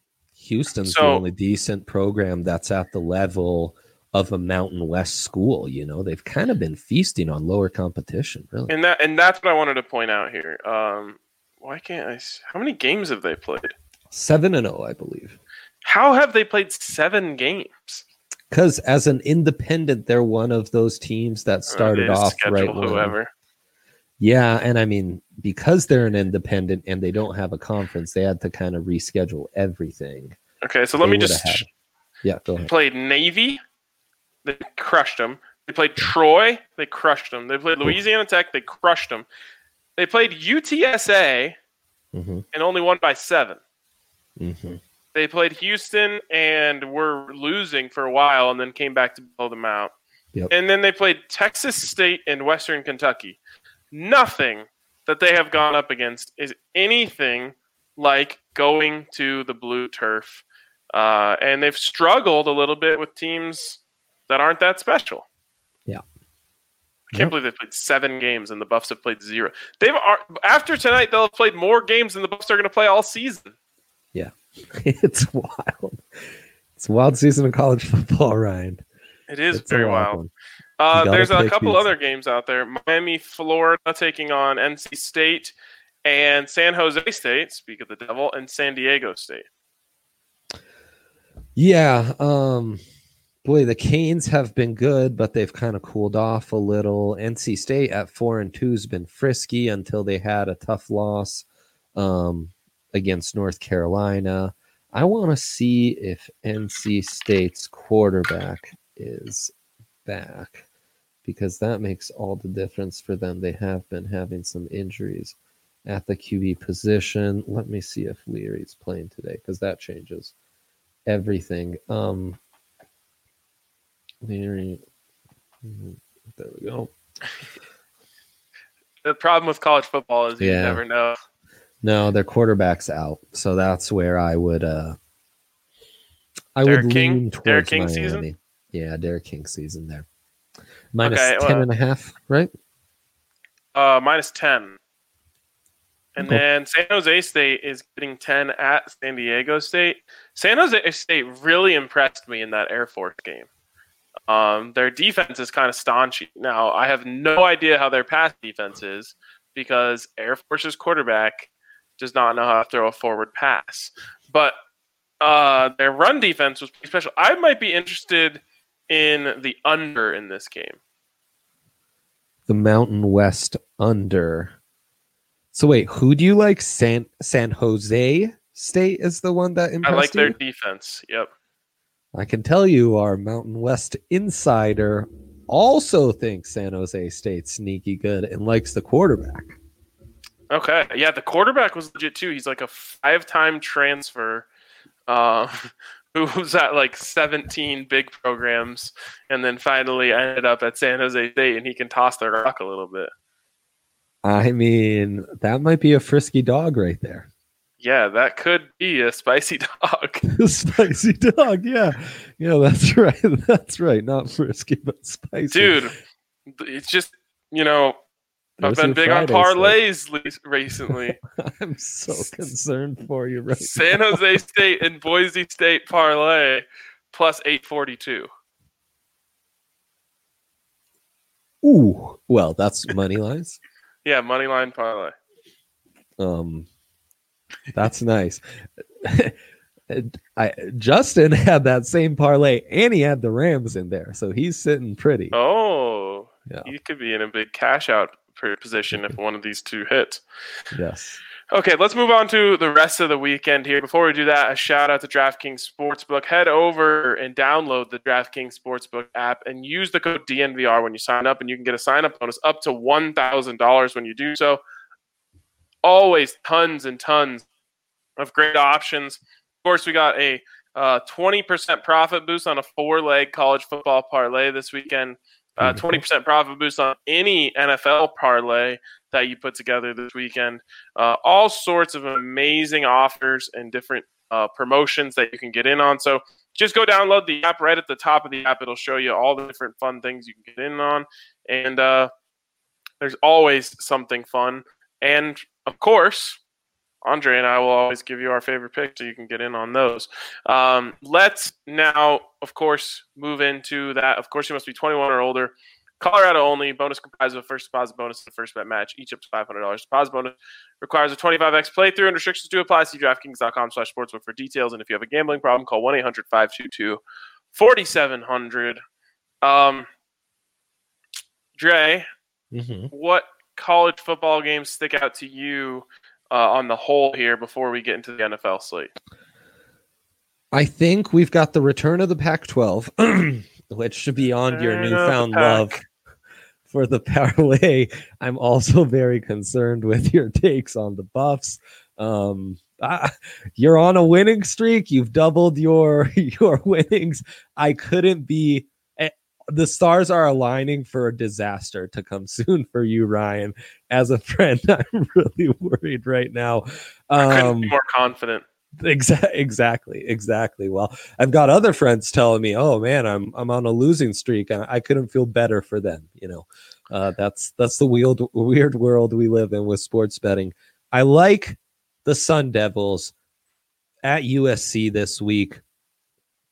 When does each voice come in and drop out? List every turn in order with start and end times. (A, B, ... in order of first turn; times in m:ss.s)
0:00.4-0:08.7 A
0:00.8-0:01.2 B
0:08.7-0:13.7 B
0:14.1-0:15.4 A
0:15.8-0:18.0 B
0:18.5-0:23.1 A
0:21.7-0:23.3 B
0:24.2-0:30.4 A
0:30.6-0:31.6 B
0:31.0-0:31.7 A
0:32.2-0:32.7 A
0:32.6-0:33.6 B
0:34.4-0:39.2 B
0:40.0-0:41.6 B
0:42.1-0:42.4 A
0:42.5-0:43.6 B
0:44.4-0:44.8 A
0:45.1-0:49.9 B
0:50.5-0:53.4 B
0:53.9-1:05.2 B
1:07.1-1:13.5 B
1:14.1-1:16.0 A
1:16.8-1:18.8 A
1:19.3-1:20.2 B
1:19.5-1:20.3 A
1:20.8-1:29.4 B
1:20.9-1:21.8 A
1:31.6-1:32.8 A
1:33.4-1:41.4 A
1:42.0-1:49.5 A
1:50.0-1:50.6 A
1:51.2-2:00.3 A
2:01.1-2:02.4 A
2:04.2-2:04.8 A
2:05.6-2:06.9 A
2:09.0-2:11.2 B
2:10.4-2:10.8 A
2:11.8-2:15.0 A
2:16.6-2:20.0 A
2:16.6-2:18.2 B
2:20.9-2:22.5 A
2:21.0-2:21.6 B
2:23.7-2:24.8 B
2:26.2-2:33.5 B
2:34.3-2:44.5 B
2:45.2-2:50.8 B
2:52.5-2:54.5 A
2:55.5-3:00.3 A
2:59.8-3:01.3 B
3:02.1-3:09.6 A
3:10.5-3:14.4 B
3:15.1-3:23.1 B
3:24.2-3:27.3 A
3:27.8-3:30.3 B
3:30.3-3:35.8 A
3:35.5-3:35.9 B
3:36.5-3:38.0 B
3:38.6-3:39.8 A
3:38.6-3:41.2 B
3:40.9-3:44.2 A
3:43.5-3:48.3 B
3:51.6-3:53.6 A
3:54.0-3:55.1 B
3:56.2-3:56.7 A
3:57.7-3:58.4 A
3:59.0-3:59.3 A
3:59.9-4:05.3 A
4:05.3-4:10.2 B
4:10.7-4:11.2 A
4:11.5-4:24.6 B
4:25.8-4:27.5 B
4:28.2-4:52.1 B
4:35.6-4:36.0 A
4:53.0-4:56.4 B
4:57.0-5:17.0 B
5:17.5-5:18.8 B
5:19.4-5:19.9 B
5:21.6-5:22.1 B
5:22.5-5:22.9 A
5:22.9-5:28.9 B
5:30.5-5:35.8 A
5:34.5-5:35.8 B
5:36.7-5:57.7 A
5:57.2-5:58.4 B
5:58.8-6:13.1 A
6:14.0-6:15.6 A